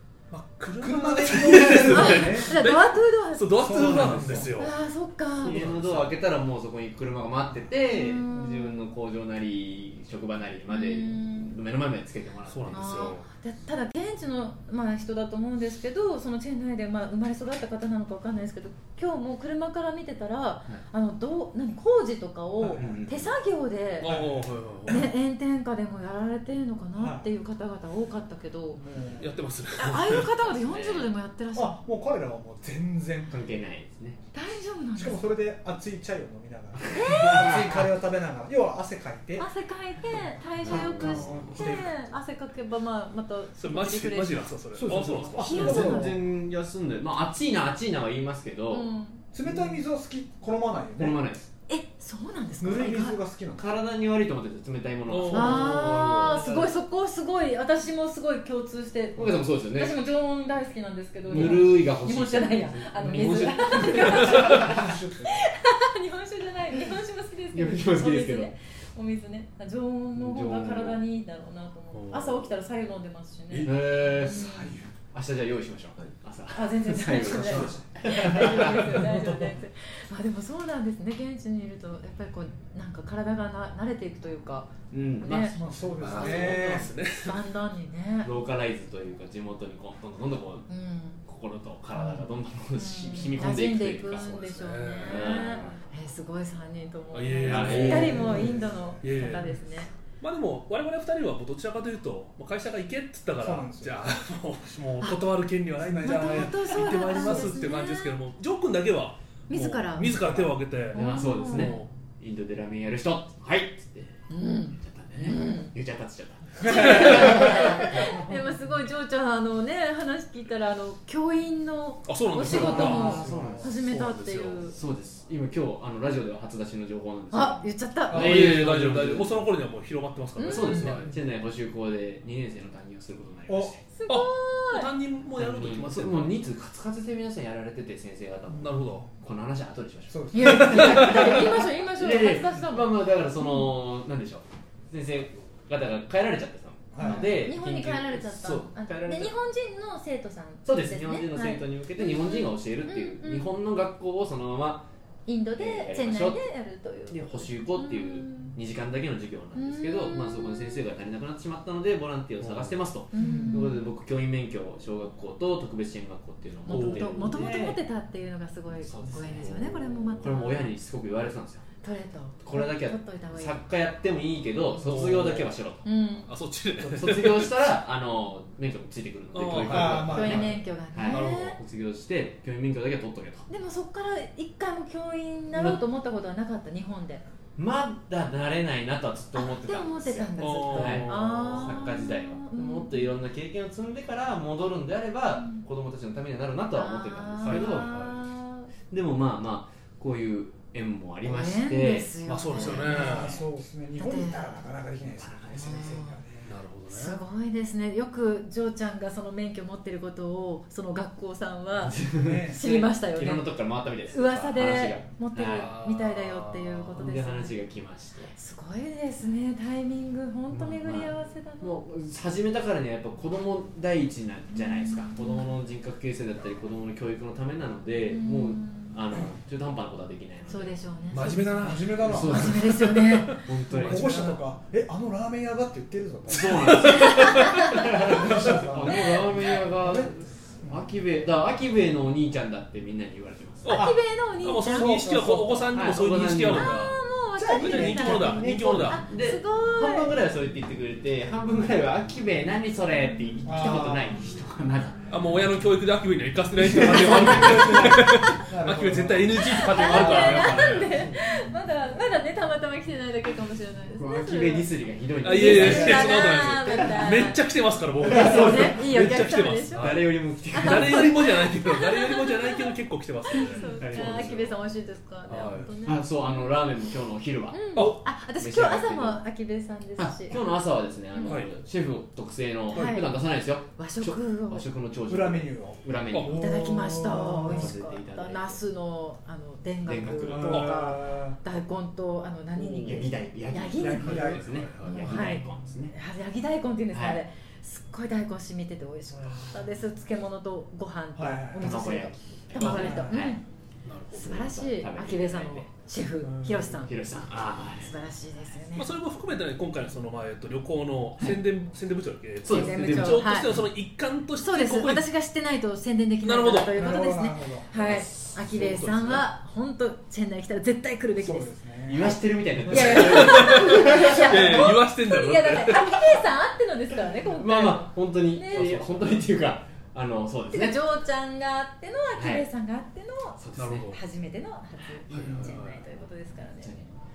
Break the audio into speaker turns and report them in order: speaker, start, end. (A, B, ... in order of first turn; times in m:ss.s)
0:00.3-0:04.7 A
0:00.8-0:02.6 B
0:01.9-0:03.9 C
0:03.6-0:04.6 B
0:03.7-0:04.4 D
0:04.6-0:05.7 C
0:05.4-0:13.2 D
0:05.6-0:06.1 A
0:07.9-0:08.8 C
0:10.7-0:11.6 C
0:12.5-0:13.3 A
0:12.7-0:24.1 C
0:22.6-0:23.0 B
0:22.8-0:23.3 D
0:24.0-0:25.1 A
0:24.0-0:25.1 B
0:24.9-0:28.8 C
0:27.0-0:27.3 B
0:28.7-0:29.4 B
0:29.2-0:30.3 A
0:29.8-0:31.8 C
0:30.5-0:31.1 D
0:31.6-0:33.5 B
0:33.3-0:34.2 D
0:34.3-0:35.2 C
0:35.0-0:39.5 B
0:36.8-0:37.9 D
0:36.9-0:37.5 C
0:39.4-0:44.4 C
0:40.6-0:41.8 D
0:40.6-0:42.1 B
0:43.6-0:45.9 A
0:44.8-0:46.2 B
0:45.4-0:46.2 C
0:45.5-0:48.9 D
0:48.7-0:49.2 C
0:49.3-0:51.2 B
0:49.4-0:49.8 D
0:51.0-0:51.5 D
0:51.7-0:53.2 C
0:52.6-0:53.7 B
0:53.6-0:56.1 D
0:55.1-0:56.7 A
0:55.3-1:14.8 C
0:59.2-1:00.0 D
1:01.3-1:03.5 D
1:03.0-1:04.8 A
1:03.2-1:05.4 B
1:07.5-1:08.5 D
1:10.2-1:11.0 D
1:11.9-1:12.5 A
1:13.6-1:19.0 D
1:14.2-1:14.9 B
1:16.5-1:25.6 C
1:17.5-1:17.7 A
1:18.3-1:19.4 A
1:24.9-1:26.9 D
1:25.5-1:26.9 B
1:26.0-1:27.5 A
1:27.2-1:28.3 C
1:28.2-1:30.7 D
1:30.7-1:31.2 C
1:31.3-1:35.8 D
1:32.0-1:32.3 B
1:32.8-1:39.9 C
1:34.5-1:35.6 A
1:37.1-1:38.4 A
1:37.4-1:38.6 D
1:37.7-1:39.0 B
1:39.0-1:39.6 A
1:40.2-1:51.9 A
1:43.4-1:44.0 B
1:45.8-1:47.5 B
1:46.0-1:48.2 C
1:49.5-1:50.3 C
1:50.2-1:50.5 B
1:50.9-1:51.8 C
1:50.9-1:58.2 D
1:54.3-1:55.7 C
1:56.6-2:04.8 C
1:56.6-1:58.3 B
1:56.9-1:57.6 A
2:02.1-2:04.6 A
2:02.4-2:03.7 B
2:02.5-2:03.7 D
2:04.7-2:09.5 D
2:07.3-2:08.5 C
2:08.1-2:08.4 B
2:08.1-2:11.1 A
2:10.4-2:11.0 C
2:10.4-2:13.8 D
2:10.7-2:11.2 B
2:13.5-2:13.7 B
2:13.9-2:14.9 C
2:14.1-2:16.4 A
2:15.4-2:29.3 D
2:18.5-2:19.2 B
2:18.6-2:19.0 A
2:20.1-2:21.3 B
2:20.3-2:23.7 C
2:20.4-2:21.4 A
2:26.9-2:27.3 B
2:27.0-2:33.5 C
2:30.6-2:34.9 D
2:35.3-2:38.5 C
2:35.6-2:36.4 D
2:37.1-2:47.8 D
2:39.6-2:40.8 C
2:42.4-2:42.7 A
2:43.1-2:43.9 C
2:43.2-2:43.7 B
2:46.7-2:50.7 C
2:46.7-2:47.4 A
2:48.8-2:51.6 D
2:51.8-2:53.6 C
2:52.4-2:55.8 D
2:54.8-2:55.5 A
2:55.8-2:56.3 C
2:56.3-2:57.5 A
2:56.9-3:03.5 D
2:59.3-3:00.4 A
2:59.6-3:00.6 B
3:00.1-3:01.6 C
3:01.1-3:01.5 A
3:03.5-3:07.2 C
3:05.5-3:05.8 D
3:07.6-3:18.0 D
3:09.4-3:13.1 C
3:10.4-3:11.8 A
3:15.4-3:15.6 C
3:16.7-3:18.7 C
3:17.4-3:18.2 A
3:18.9-3:23.4 D
3:21.2-3:23.3 C
3:22.3-3:23.4 A
3:22.9-3:26.5 B
3:24.0-3:24.6 C
3:25.2-3:25.8 D
3:25.5-3:26.2 C
3:26.4-3:27.2 A
3:26.9-3:33.5 C
3:31.8-3:35.7 D
3:32.1-3:32.6 B
3:34.1-3:37.6 C
3:35.4-3:36.9 A
3:36.9-3:38.3 D
3:38.3-3:41.8 C
3:40.5-3:50.8 D
3:44.5-3:45.5 C
3:48.1-3:49.0 C
3:50.5-3:53.5 C
3:51.1-3:54.4 A
3:51.2-3:52.6 B
3:52.1-3:54.3 D
3:53.7-3:57.1 B
3:56.3-4:03.8 D
3:56.5-3:58.6 A
3:57.0-3:58.1 C
3:57.7-4:00.9 B
3:58.9-3:59.6 C
4:03.6-4:07.0 A
4:03.7-4:05.3 C
4:03.7-4:04.0 B
4:04.6-4:05.8 B
4:05.7-4:06.8 D
4:06.5-4:10.1 C
4:07.4-4:09.0 B
4:07.6-4:09.0 A
4:08.7-4:15.1 D
4:13.4-4:14.2 B
4:15.1-4:20.9 A
4:16.6-4:18.0 D
4:16.6-4:21.2 B
4:17.2-4:18.3 C
4:19.4-4:24.7 C
4:19.9-4:20.9 D
4:24.0-4:26.9 D
4:25.2-4:34.3 A
4:25.2-4:27.4 C
4:25.5-4:26.2 B
4:28.0-4:31.2 D
4:28.1-4:29.9 C
4:30.5-4:32.8 C
4:33.3-4:36.5 C
4:33.4-4:34.6 D
4:35.3-4:35.7 A
4:35.8-4:39.2 D
4:37.5-4:40.4 C
4:40.0-4:46.4 D
4:41.1-4:41.4 C
4:41.2-4:41.6 A
4:42.7-4:43.2 C
4:43.8-4:44.7 C
4:45.1-4:47.7 B
4:46.3-5:03.4 C
4:47.4-4:48.6 D
4:49.9-4:50.7 D
4:50.2-4:51.4 B
4:50.5-4:50.8 A
4:52.6-4:55.9 D
4:53.7-4:55.2 B
4:54.0-4:55.1 A
4:56.9-4:57.2 D
4:59.1-4:59.6 B
5:01.2-5:01.9 B
5:01.6-5:03.4 D
5:02.6-5:03.3 B
5:03.8-5:04.5 A
5:04.1-5:06.9 C
5:04.2-5:05.7 D
5:06.2-5:06.8 B
5:06.8-5:07.9 D
5:07.7-5:08.9 C
5:08.8-5:15.1 A
5:12.4-5:13.7 D
5:12.5-5:13.6 C
5:14.4-5:21.5 C
5:16.2-5:16.8 A
5:16.7-5:17.7 B
5:18.4-5:19.3 A
5:21.2-5:22.2 B
5:21.9-5:24.6 D
5:22.7-5:28.9 C
5:22.8-5:26.1 A
5:27.3-5:30.8 D
5:28.5-5:29.2 A
5:30.5-5:36.8 C
5:32.2-5:32.5 D
5:33.4-5:33.9 D
5:33.6-5:34.0 A
5:35.1-5:35.4 D
5:35.1-5:35.8 A
5:36.6-5:36.9 D